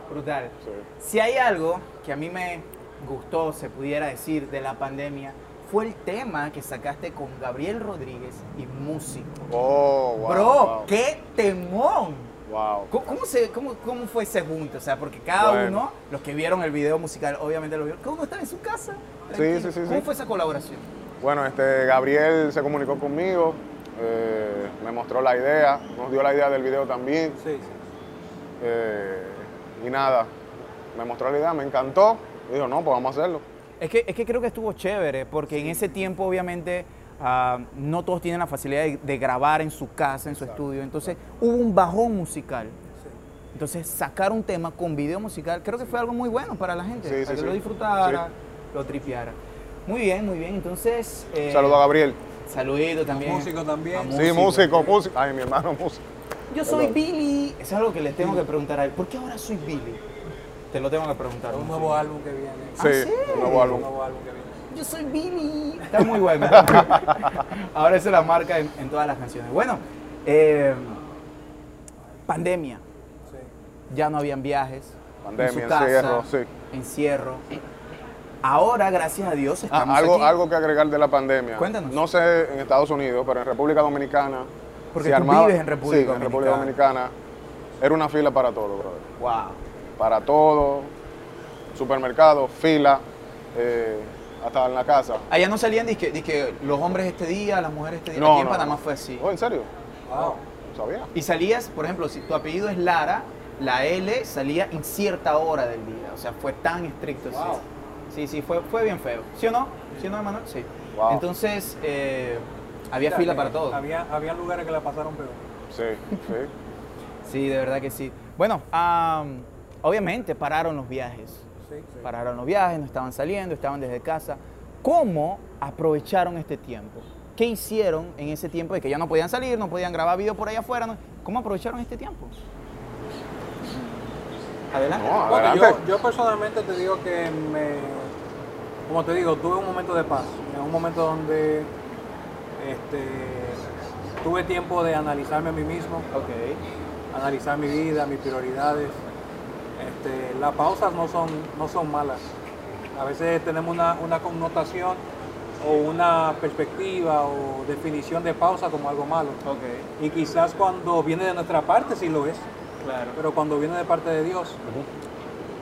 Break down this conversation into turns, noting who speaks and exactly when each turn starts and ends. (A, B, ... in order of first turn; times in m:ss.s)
0:00.1-0:09.5 A
0:09.5-0:10.9 B
0:10.2-0:12.3 A
0:12.5-0:12.9 B
0:12.9-0:20.9 A
0:15.4-0:15.8 B
0:19.3-0:20.1 B
0:21.2-0:27.4 B
0:27.4-0:27.8 C
0:28.6-0:30.3 B
0:30.9-0:33.4 B
0:33.8-0:42.8 A
0:35.5-0:36.0 C
0:43.5-0:51.8 A
0:47.0-0:48.2 B
0:51.5-0:52.2 B
0:52.4-0:54.9 A
0:53.1-0:54.2 C
0:54.1-0:56.0 B
0:56.5-1:00.0 A
0:56.6-0:56.9 B
1:00.7-1:02.0 A
1:01.5-1:04.6 C
1:02.8-1:03.8 A
1:02.8-1:03.9 B
1:04.7-1:11.0 A
1:06.5-1:07.4 B
1:12.3-1:12.8 A
1:13.9-1:17.5 A
1:15.2-1:16.5 B
1:18.4-1:20.4 A
1:19.7-1:27.1 B
1:21.6-1:22.0 A
1:24.9-1:26.7 A
1:27.8-1:29.2 B
1:29.2-1:29.6 A
1:30.0-1:30.9 B
1:31.7-1:33.0 B
1:33.5-1:35.2 B
1:35.3-1:39.3 A
1:38.1-1:39.7 B
1:40.1-1:40.4 C
1:40.7-1:41.1 B
1:41.1-1:53.8 A
1:47.3-1:47.6 C
1:50.9-1:51.2 B
1:53.0-1:55.4 C
1:55.7-1:56.5 B
1:57.2-2:01.5 A
2:02.0-2:12.3 A
2:13.6-2:14.0 A
2:14.7-2:15.1 A
2:15.0-2:15.8 B
2:15.3-2:18.1 C
2:18.9-2:21.7 C
2:22.6-2:23.6 C
2:24.2-2:26.1 C
2:26.1-2:26.6 A
2:27.1-2:29.0 C
2:29.8-2:32.3 C
2:32.9-2:35.0 C
2:35.6-2:39.4 C
2:39.4-2:39.9 A
2:40.0-2:42.5 C
2:42.8-2:43.2 A
2:43.1-2:44.6 C